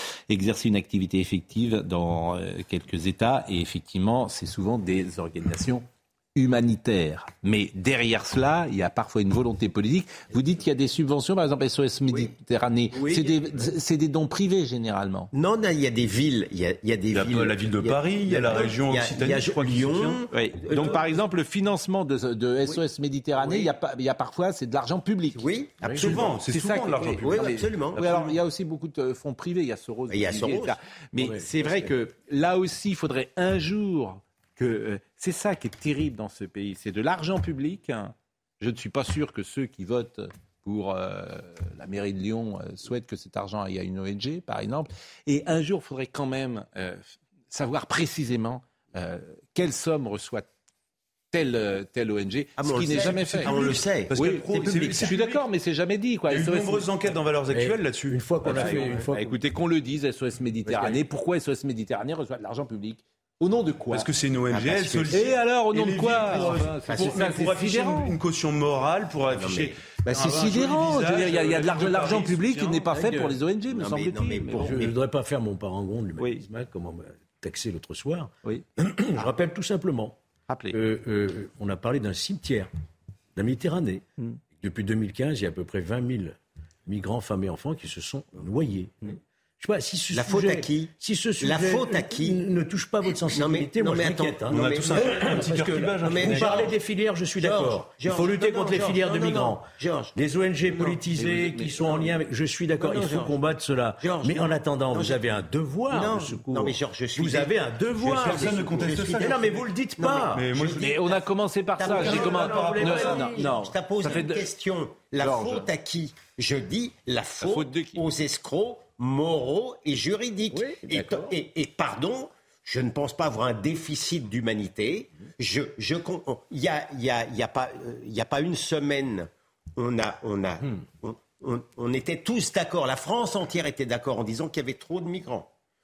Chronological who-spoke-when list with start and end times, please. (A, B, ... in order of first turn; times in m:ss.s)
0:00.3-0:15.3 A
0:12.9-0:13.7 B
0:15.3-0:21.2 B
0:17.1-0:20.2 C
0:20.3-0:25.5 A
0:23.4-0:23.7 B
0:25.3-0:26.4 B
0:25.8-0:26.2 D
0:26.0-0:28.2 C
0:26.5-0:50.5 A
0:27.2-0:28.3 B
0:30.1-0:30.8 B
0:31.2-0:31.9 D
0:51.3-0:57.0 A
0:52.6-0:55.2 B
0:53.0-0:55.4 C
0:56.3-0:59.0 C
0:57.5-0:59.2 D
0:58.4-1:04.1 A
1:00.7-1:01.0 D
1:03.9-1:12.9 C
1:04.5-1:05.3 B
1:05.1-1:08.2 A
1:06.0-1:07.3 B
1:09.3-1:09.8 B
1:10.0-1:14.8 A
1:12.9-1:13.4 D
1:13.7-1:15.0 B
1:14.5-1:20.2 D
1:16.2-1:16.4 A
1:20.5-1:20.8 A
1:20.7-1:22.7 D
1:23.4-1:24.0 D
1:24.6-1:50.5 D
1:30.1-1:32.4 B
1:33.2-1:36.7 B
1:34.5-1:36.7 C
1:37.4-1:40.1 B
1:40.7-1:41.0 B
1:41.2-1:42.2 A
1:42.8-1:43.3 B
1:44.0-1:45.3 B
1:45.9-1:51.2 B
1:48.0-1:49.6 C
1:50.3-1:51.0 C
1:50.8-1:54.5 A
1:51.8-1:53.5 D
1:51.8-2:15.5 B
1:52.0-1:53.4 C
1:55.2-1:55.7 A
1:57.4-1:58.0 A
2:00.5-2:01.4 D